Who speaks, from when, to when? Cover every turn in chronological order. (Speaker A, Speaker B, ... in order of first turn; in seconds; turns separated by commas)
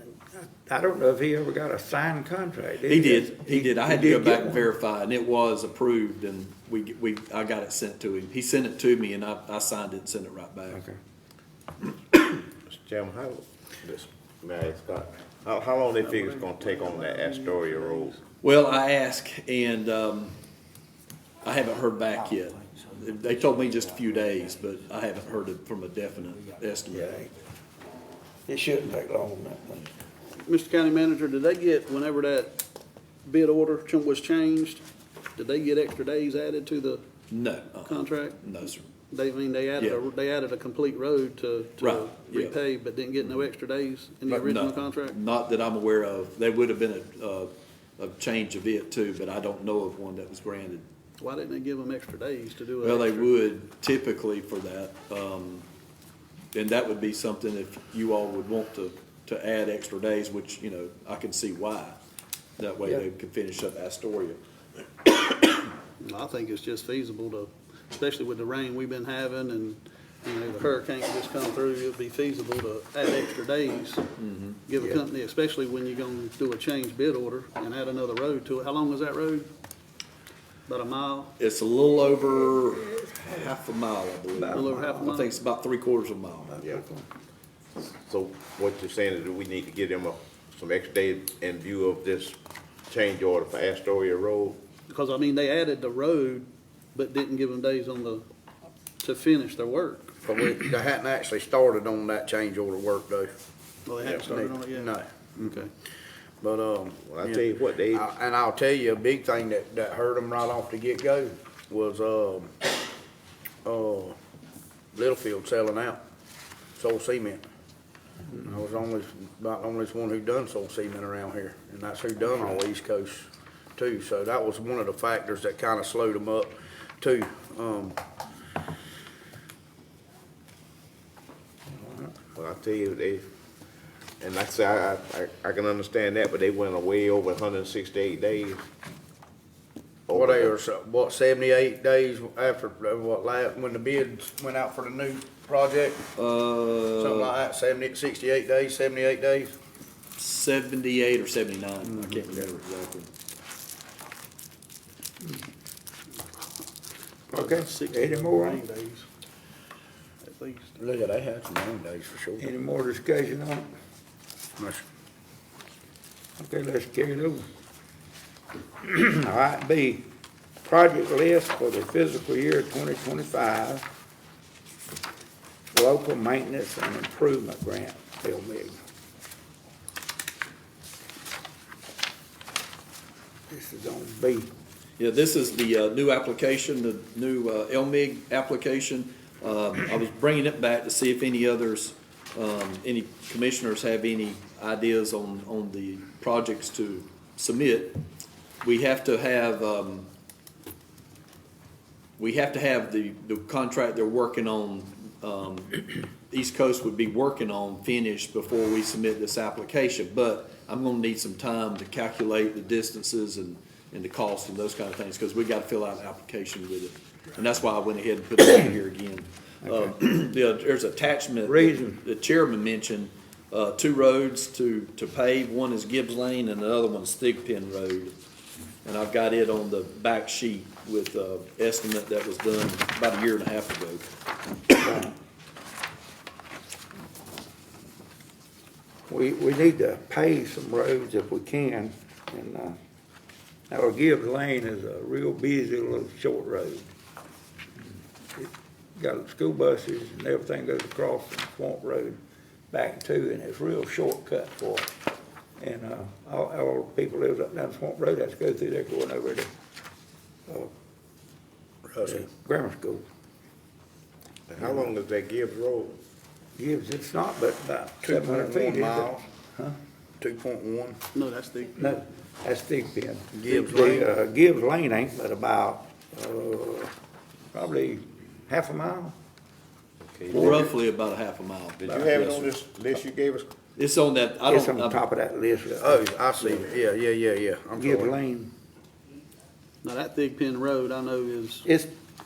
Speaker A: 0.3-4.7, Speaker B: 2.9-10.8, Speaker C: 12.7-18.2, Speaker D: 16.1-17.9, Speaker B: 18.4-20.4, Speaker B: 21.4-27.2, Speaker A: 26.9-27.3, Speaker A: 28.5-29.9, Speaker D: 30.4-32.6, Speaker D: 33.2-34.8, Speaker D: 35.4-37.0, Speaker B: 37.3-38.9, Speaker D: 37.9-38.4, Speaker D: 39.1-45.2, Speaker B: 41.8-42.5, Speaker B: 44.3-50.8, Speaker D: 51.2-53.3, Speaker B: 52.8-55.6, Speaker B: 56.5-62.0, Speaker B: 62.6-64.4, Speaker D: 66.0-74.1, Speaker B: 74.2-74.6, Speaker D: 74.7-79.5, Speaker D: 80.7-81.3, Speaker B: 81.4-86.6, Speaker A: 84.3-85.2, Speaker D: 84.5-85.4, Speaker A: 86.5-87.0, Speaker C: 87.9-94.6, Speaker D: 94.9-98.3, Speaker D: 99.0-100.1, Speaker E: 100.2-103.3, Speaker D: 103.9-105.7, Speaker E: 104.2-105.5, Speaker E: 106.4-112.5, Speaker C: 107.0-108.1, Speaker E: 113.7-114.2, Speaker E: 114.9-116.0, Speaker E: 116.8-117.4, Speaker E: 118.3-128.0, Speaker A: 131.7-132.2, Speaker C: 132.3-133.3, Speaker C: 134.2-138.7, Speaker C: 140.1-140.6, Speaker E: 140.1-146.1, Speaker B: 146.2-147.3, Speaker E: 146.9-149.5, Speaker B: 150.2-153.1, Speaker A: 157.3-158.6, Speaker D: 157.3-159.1, Speaker D: 160.2-160.8, Speaker E: 160.8-162.4, Speaker A: 162.4-163.7, Speaker E: 164.6-164.8, Speaker A: 166.4-167.5, Speaker A: 168.8-170.1, Speaker A: 170.7-173.8, Speaker A: 175.7-178.8, Speaker A: 183.5-184.5, Speaker B: 185.0-198.0, Speaker B: 198.6-200.1, Speaker B: 202.2-228.1, Speaker A: 219.7-219.9, Speaker A: 221.4-222.0, Speaker B: 228.8-234.1, Speaker A: 234.8-235.1, Speaker A: 239.1-242.8, Speaker A: 243.7-246.9, Speaker A: 248.4-252.2, Speaker A: 252.7-254.9, Speaker A: 255.6-259.5, Speaker E: 261.9-262.2, Speaker A: 262.0-263.0, Speaker C: 264.5-266.0, Speaker A: 266.6-269.8, Speaker E: 268.0-269.2, Speaker E: 270.2-271.0, Speaker D: 271.1-272.0, Speaker A: 271.8-276.9, Speaker E: 273.3-274.1, Speaker A: 277.5-279.1, Speaker B: 280.3-282.2, Speaker A: 280.3-280.6, Speaker C: 281.9-283.5, Speaker B: 283.8-285.0, Speaker A: 284.5-286.0, Speaker E: 285.8-288.1, Speaker A: 287.8-288.5, Speaker D: 289.8-291.7, Speaker A: 291.6-291.9